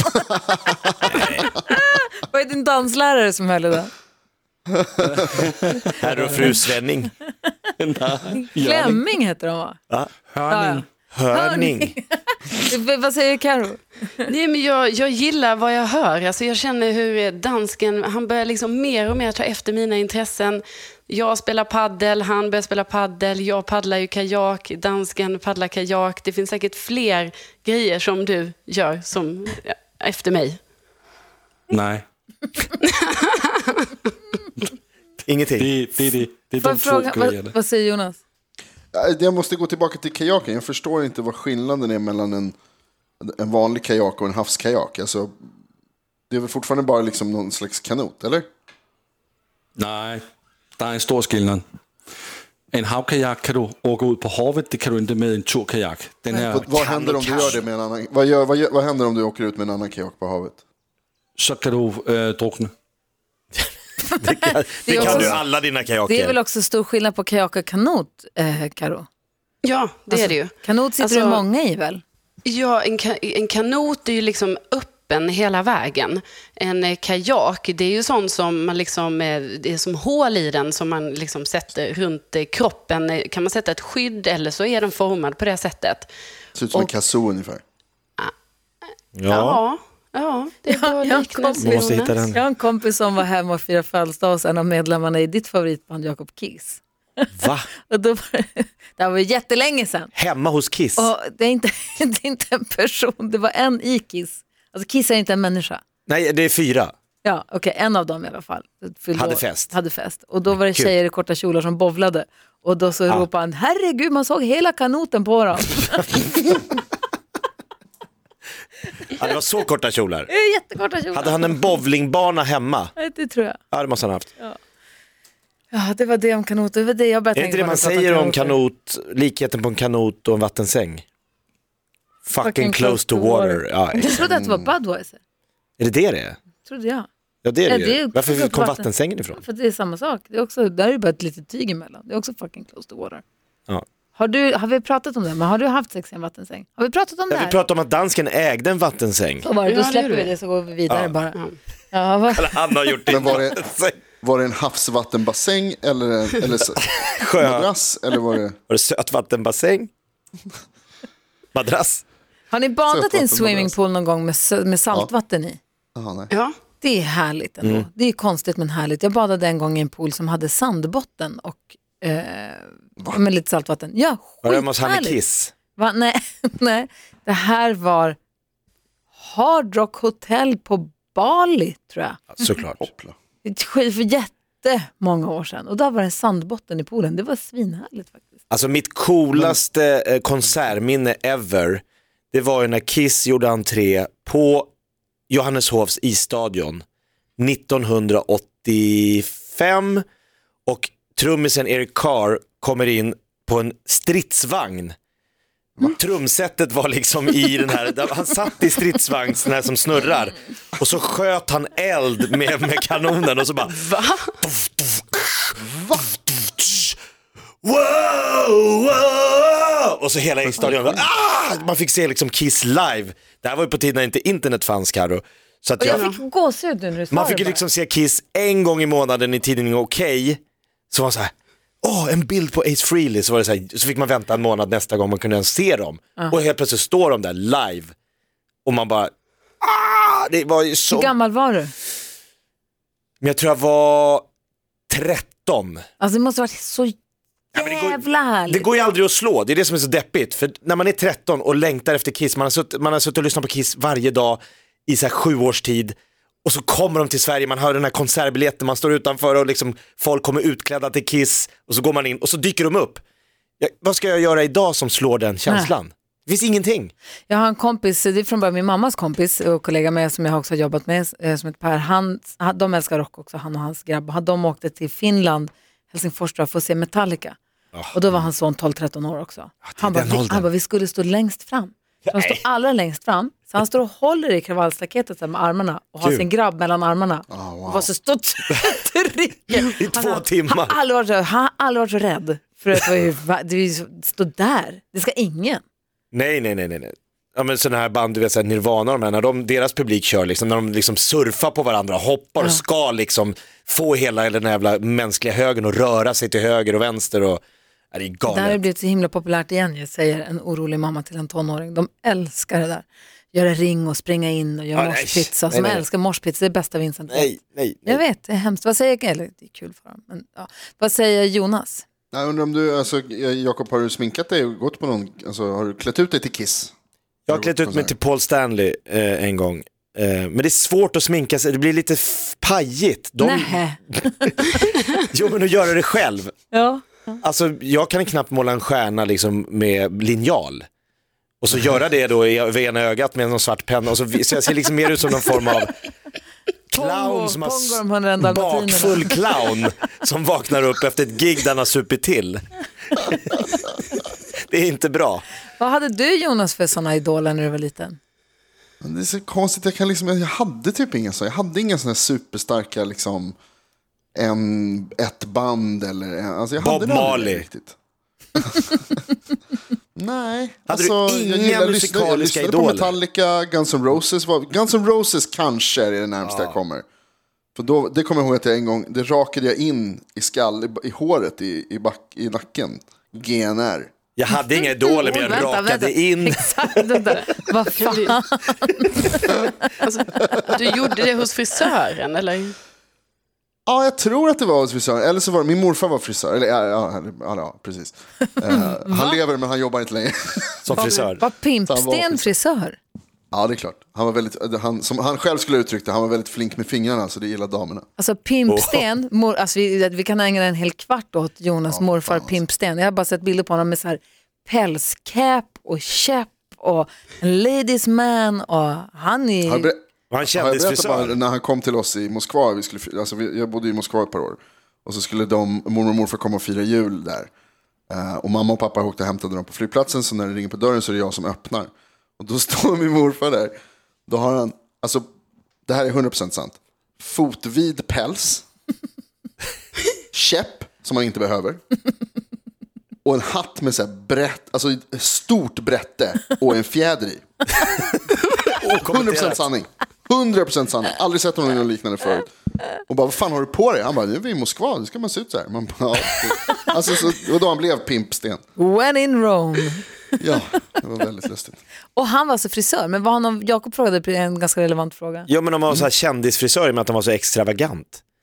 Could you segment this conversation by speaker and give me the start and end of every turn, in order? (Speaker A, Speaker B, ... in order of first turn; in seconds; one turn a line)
Speaker A: 1.2-3.9
Speaker B: 5.0-6.6
Speaker C: 6.0-7.1
Speaker B: 7.8-9.0
Speaker A: 8.5-9.8
Speaker B: 10.3-10.8
Speaker A: 10.5-14.2
Speaker C: 11.1-11.9
Speaker D: 14.2-30.6
Speaker B: 31.7-32.0
Speaker D: 32.8-34.0
Speaker C: 35.2-35.7
Speaker B: 35.6-37.5
Speaker A: 36.6-38.2
Speaker E: 38.9-42.5
Speaker E: 43.2-45.3
Speaker E: 46.3-48.5
Speaker B: 49.8-50.2
Speaker B: 50.8-51.6
Speaker B: 52.7-56.8
Speaker E: 56.5-60.6
Speaker C: 56.8-57.6
Speaker B: 61.4-62.7
Speaker A: 64.0-65.5
Speaker C: 64.2-66.3
Speaker B: 65.0-65.3
Speaker A: 66.0-69.1
Speaker D: 69.6-71.4
Speaker A: 70.1-72.0
Speaker D: 72.4-86.1
Speaker E: 86.5-87.6
Speaker C: 89.2-89.6
Speaker D: 89.3-92.3
Speaker A: 90.7-100.1
Speaker C: 91.6-92.4
Speaker C: 97.4-97.7
Speaker C: 100.1-101.1
Speaker A: 101.0-105.8
Speaker C: 106.1-106.9
Speaker A: 107.2-116.2
Speaker C: 109.1-109.7
Speaker C: 119.1-120.3
Speaker A: 120.3-121.7
Speaker C: 121.1-122.9
Speaker A: 123.0-123.6
Speaker C: 123.7-124.3
Speaker A: 125.7-128.6
Speaker C: 127.3-131.0
Speaker C: 132.2-134.3
Speaker A: 132.4-135.2
Speaker E: 134.2-134.7
Speaker C: 135.8-136.4
Speaker A: 136.6-137.1
Speaker C: 137.4-139.4
Speaker A: 137.7-143.2
Speaker A: 144.1-147.6
Speaker C: 147.3-149.5
Speaker A: 149.4-151.4
Speaker D: 149.6-150.3
Speaker C: 150.9-151.1
Speaker A: 151.9-153.4
Speaker C: 152.3-153.9
Speaker E: 153.1-153.6
Speaker E: 154.2-156.8
Speaker C: 156.8-157.7
Speaker E: 157.4-158.6
Speaker C: 158.7-159.9
Speaker C: 161.5-162.0
Speaker A: 162.5-165.6
Speaker E: 162.9-163.7
Speaker E: 165.9-166.3
Speaker A: 166.8-175.2
Speaker C: 174.4-175.5
Speaker A: 175.7-178.2
Speaker A: 179.2-182.5
Speaker C: 182.3-182.8
Speaker E: 182.8-183.2
Speaker A: 183.4-188.3
Speaker C: 188.5-194.7
Speaker C: 195.3-196.8
Speaker C: 197.4-200.0
Speaker C: 200.7-204.9
Speaker C: 205.9-213.8
Speaker D: 213.7-214.2
Speaker C: 214.4-217.0
Speaker E: 215.6-216.1
Speaker C: 217.6-226.1
Speaker E: 220.5-221.0
Speaker A: 225.8-227.6
Speaker D: 225.9-226.2
Speaker C: 227.1-230.4
Speaker C: 230.9-237.9
Speaker C: 238.6-241.1
Speaker A: 240.9-241.7
Speaker C: 243.2-244.2
Speaker C: 244.9-245.8
Speaker A: 246.0-246.9
Speaker A: 247.5-248.6
Speaker C: 247.5-263.0
Speaker C: 263.6-266.9
Speaker A: 265.5-265.7
Speaker A: 267.3-277.4
Speaker A: 277.9-295.6
Speaker C: 279.6-280.4
Speaker C: 282.1-282.4
Speaker E: 287.3-287.9
Speaker C: 289.6-290.8
Speaker C: 296.1-307.4
Speaker C: 307.9-308.6
Speaker A: 308.3-317.3
Speaker C: 314.8-315.8
Speaker C: 317.1-318.0
Speaker A: 317.8-321.8
Speaker E: 322.1-326.7
Speaker C: 327.3-336.3
Speaker E: 327.3-327.9
Speaker A: 333.2-334.6
Speaker A: 336.5-337.2
Speaker C: 337.2-340.6
Speaker C: 341.4-345.7
Speaker C: 346.7-353.6
Speaker A: 346.7-349.3
Speaker C: 354.4-355.2
Speaker A: 355.6-358.0
Speaker E: 358.8-363.3
Speaker E: 364.1-367.7
Speaker C: 366.6-367.4
Speaker E: 368.4-369.0
Speaker E: 369.9-376.8
Speaker C: 370.7-372.9
Speaker C: 376.2-376.6
Speaker E: 377.5-383.9
Speaker C: 384.1-387.3
Speaker A: 384.5-389.7
Speaker D: 387.8-388.1
Speaker D: 389.8-392.5
Speaker E: 393.7-400.7
Speaker A: 398.5-399.2
Speaker C: 400.6-401.2
Speaker A: 400.8-402.8
Speaker D: 400.8-401.1
Speaker E: 401.7-402.3
Speaker E: 403.3-407.9
Speaker A: 408.0-419.7
Speaker C: 408.5-408.8
Speaker E: 411.7-412.4
Speaker E: 419.4-427.3
Speaker C: 420.1-421.1
Speaker E: 427.9-433.6
Speaker E: 434.1-435.1
Speaker E: 435.7-438.4
Speaker E: 440.1-441.6
Speaker E: 443.0-447.2
Speaker C: 448.5-449.4
Speaker E: 448.9-452.3
Speaker E: 452.9-458.4
Speaker A: 458.6-459.9
Speaker E: 460.2-461.6
Speaker A: 461.9-465.3
Speaker C: 465.3-468.0